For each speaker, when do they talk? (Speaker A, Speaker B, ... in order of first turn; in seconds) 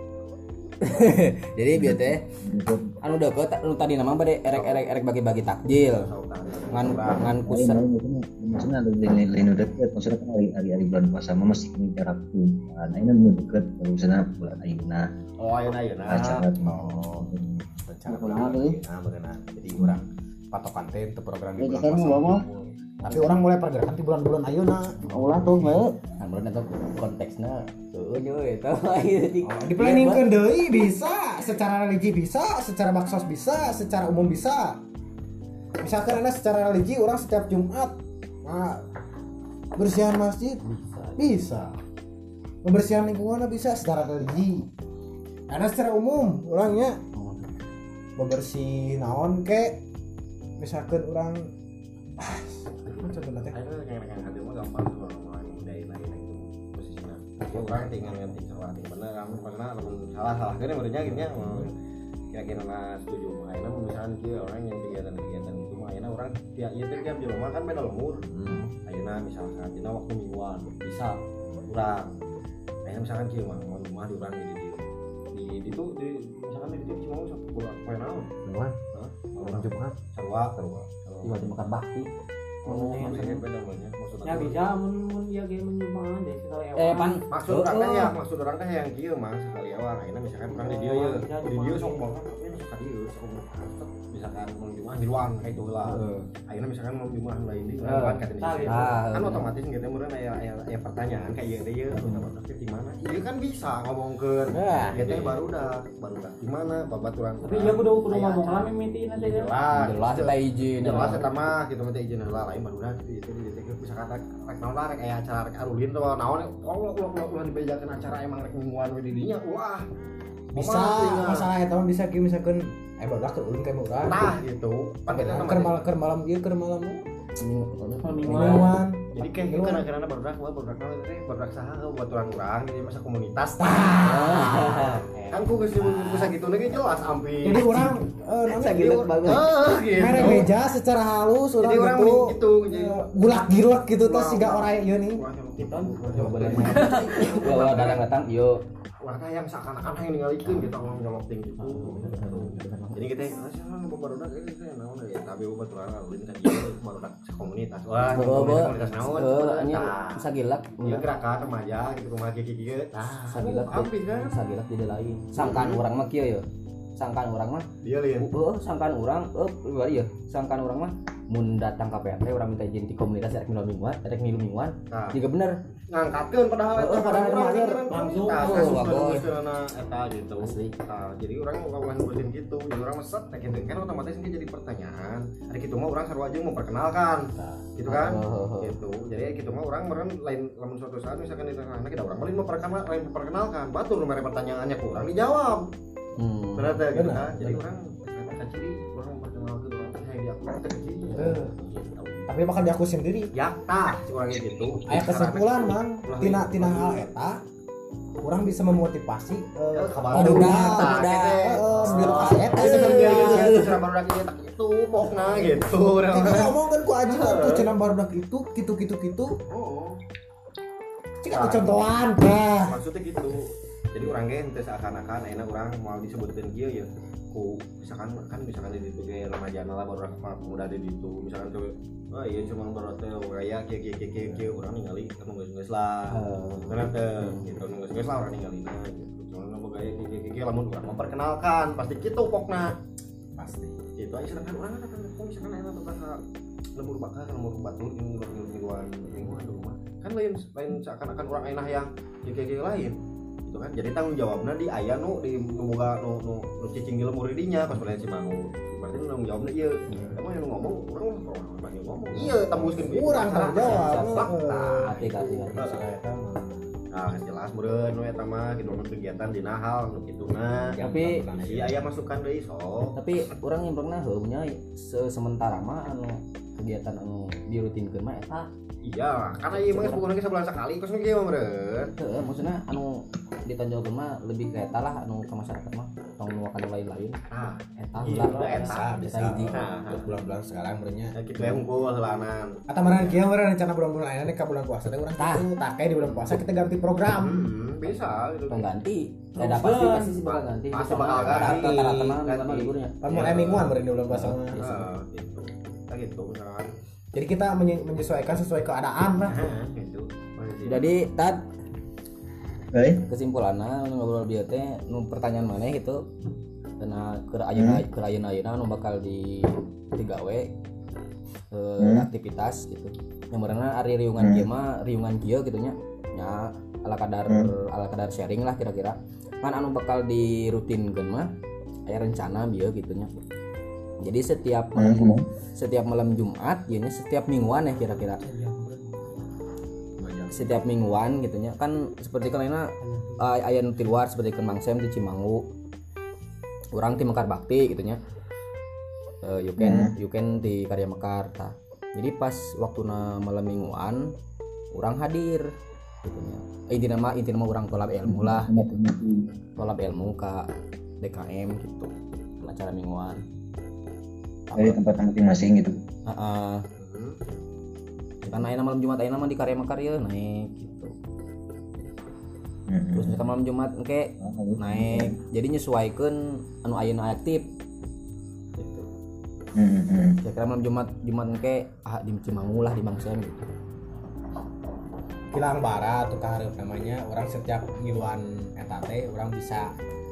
Speaker A: 0.8-2.2, 3.0-6.1, 6.7-7.8, 25.0-30.3, 40.6-41.2, 47.1-47.5, 81.2-82.1, 82.7-83.4, 86.8-88.1, 95.8-96.3, 97.8-99.5, 101.9-102.3, 104.9-105.4, 109.7-111.3, 127.4-128.8, 134.1-136.3, 138.5-139.5, 146.1-148.6, 151.6-153.2, 158.1-161.0, 163.3-166.4, 167.0-167.7, 168.2-175.6, 176.8-177.3, 178.4-179.3, 180.4-180.7, 187.9-188.8, 196.2-196.8, 210.1-211.4, 211.9-213.7, 236.1-237.4, 259.9-260.2, 263.6-265.8, 270.8-271.2, 272.9-278.5, 279.5-280.1, 282.0-287.2, 287.8-289.6, 295.2-295.5, 298.5-303.0, 304.1-304.9, 310.6-311.4, 313.1-316.0, 316.8-320.5, 321.5-331.3, 331.9-333.3, 334.0-338.2, 340.3-345.4, 346.8-348.0, 349.2-354.1, 354.7-355.5, 356.0-358.5, 359.6-360.5, 361.0-363.2, 364.5-364.8, 366.1-366.6, 368.2-370.9, 372.9-377.5, 378.6-378.9, 380.2-383.5
Speaker B: 1.8-3.0, 7.4-15.1, 16.1-18.8, 21.6-22.4, 25.1-25.9, 312.7-313.0, 317.6-317.8, 321.8-322.1, 324.2-324.5, 334.8-335.2, 349.6-349.9, 358.1-359.3, 364.6-365.7, 372.7-373.2, 374.2-375.2, 379.6-380.2
Speaker C: 4.5-4.8, 5.7-7.3, 15.4-16.5, 53.5-61.7, 62.3-72.2, 72.8-74.8, 75.3-78.3, 78.9-81.5, 82.6-84.6, 87.3-119.8, 120.6-121.5, 124.0-125.9, 129.1-137.8, 138.7-140.5, 141.6-143.1, 144.0-148.0, 149.0-152.1, 153.0-160.2, 160.8-164.3, 165.4-165.8, 167.8-168.3, 174.9-175.2, 175.9-195.7, 196.6-202.2, 203.3-207.1, 209.7-216.5, 217.1-217.7, 219.5-220.0, 221.3-221.8, 222.6-242.8, 244.0-246.2, 246.8-252.9, 253.5-265.8, 266.9-270.8, 271.3-273.0, 278.8-281.9, 287.3-288.8, 289.5-290.1, 291.2-293.2, 297.1-298.7, 300.2-301.7, 302.2-303.8, 304.6-306.7, 309.3-310.9, 366.8-367.2
Speaker D: 16.6-25.0, 29.4-34.8, 35.8-38.9, 39.8-40.6, 41.2-41.7, 42.6-44.7, 45.5-47.0, 48.2-49.8, 50.6-51.5, 52.2-53.6, 61.1-61.7, 68.2-68.7, 78.5-78.8, 79.4-80.0, 104.5-105.0, 120.5-124.3, 125.1-127.0, 128.2-129.8, 133.6-134.6, 137.4-138.9, 140.0-145.2, 146.3-146.8, 176.9-178.9, 187.3-187.6, 196.9-197.6, 201.1-201.5, 202.3-203.3, 204.9-207.4, 208.2-213.7, 216.1-219.4, 221.2-222.8, 243.3-243.8, 262.1-266.7, 270.7-271.8, 288.6-291.2, 292.7-297.5, 299.4-300.2, 301.2-302.2, 303.0-304.6, 307.1-309.4, 340.0-340.5, 385.3-389.8
Speaker E: 82.7-83.2, 84.2-87.2, 90.6-92.1, 98.4-98.9, 107.4-109.6, 110.8-111.2, 128.0-128.8, 145.8-147.2, 288.1-288.7, 337.9-339.2, 342.8-343.3